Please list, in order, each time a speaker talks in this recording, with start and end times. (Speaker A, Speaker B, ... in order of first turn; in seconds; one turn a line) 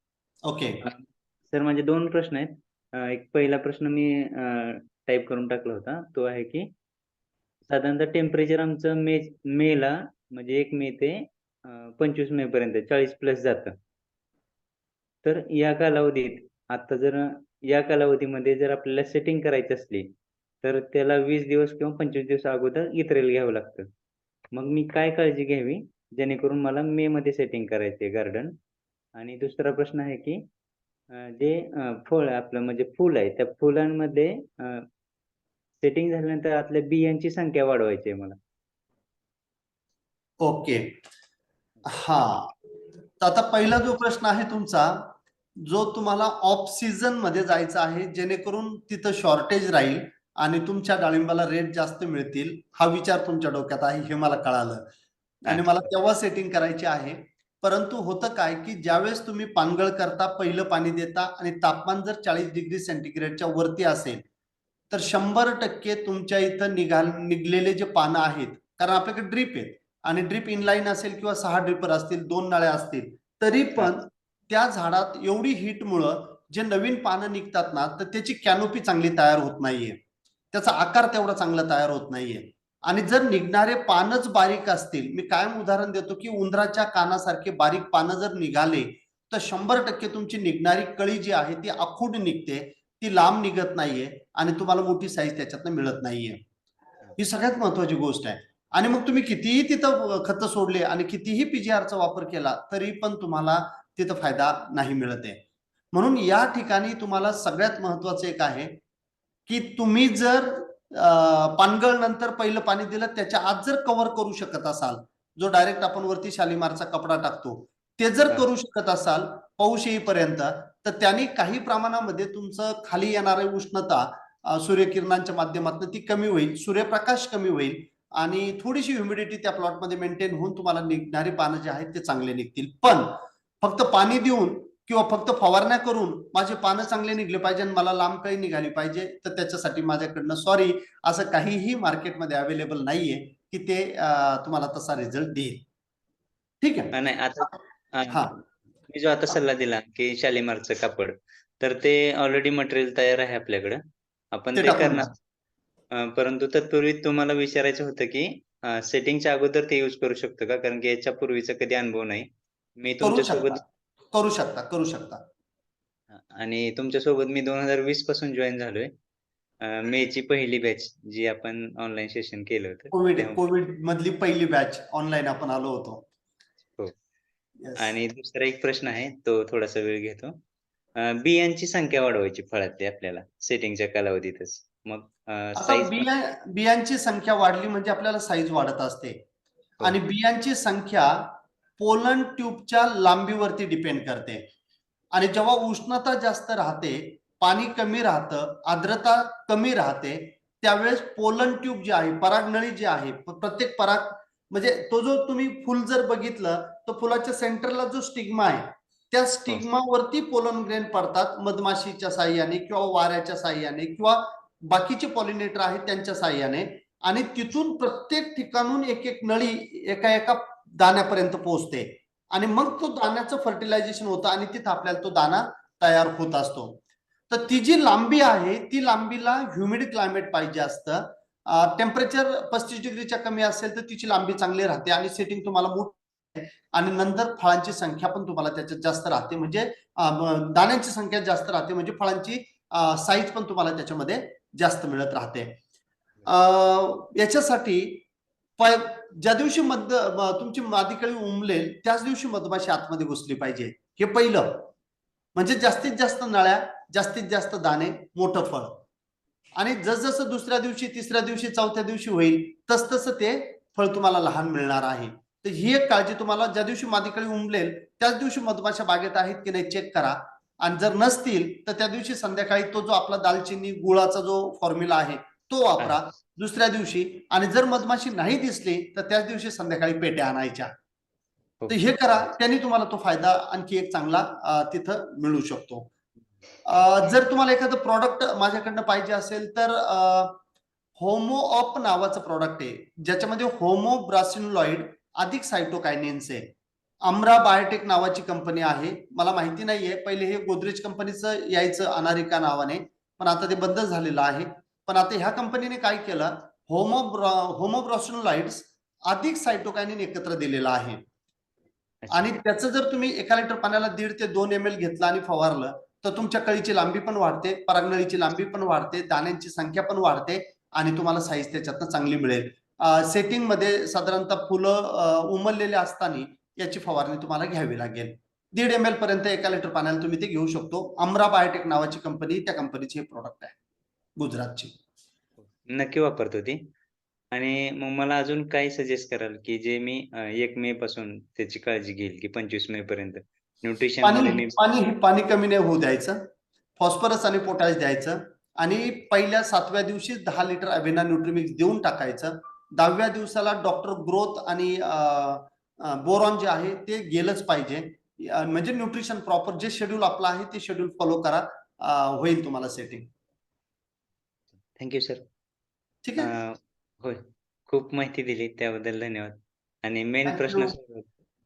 Speaker A: 0.5-0.8
Speaker B: 0.8-6.7
Speaker B: 7.7-13.8
Speaker B: 15.2-20.1
Speaker B: 20.6-23.9
Speaker B: 24.5-28.6
Speaker B: 29.1-30.4
Speaker B: 31.1-34.9
Speaker B: 35.8-38.4
Speaker A: 40.4-40.9
Speaker A: 41.9-42.5
Speaker A: 43.2-54.9
Speaker A: 55.4-64.2
Speaker B: 55.5-55.9
Speaker A: 64.9-80.0
Speaker A: 80.5-96.4
Speaker A: 97.2-105.4
Speaker A: 105.9-108.7
Speaker A: 109.5-145.6
Speaker A: 146.6-146.9
Speaker B: 146.9-148.3
Speaker A: 148.1-148.4
Speaker B: 148.9-153.8
Speaker B: 154.3-155.1
Speaker A: 154.6-155.1
Speaker B: 156.0-162.3
Speaker B: 162.8-163.6
Speaker A: 163.0-163.6
Speaker A: 164.1-165.2
Speaker B: 166.1-168.9
Speaker B: 169.6-173.4
Speaker A: 172.9-176.1
Speaker A: 177.6-177.9
Speaker B: 177.8-180.4
Speaker B: 181.0-186.1
Speaker A: 185.6-189.2
Speaker A: 189.8-194.5
Speaker A: 195.1-245.6
Speaker A: 246.2-248.1
Speaker A: 248.6-254.7
Speaker A: 255.3-258.8
Speaker A: 259.6-280.7
Speaker B: 281.6-282.3
Speaker A: 281.7-285.9
Speaker A: 286.7-290.4
Speaker A: 291.0-296.5
Speaker A: 297.1-311.0
Speaker B: 312.0-312.4
Speaker A: 312.1-333.6
Speaker A: 334.2-334.7
Speaker B: 335.6-336.6
Speaker B: 337.3-344.6
Speaker A: 344.0-346.2
Speaker A: 346.8-363.1
Speaker B: 364.8-365.2
Speaker A: 366.0-366.3
Speaker B: 366.2-371.1
Speaker A: 370.3-370.7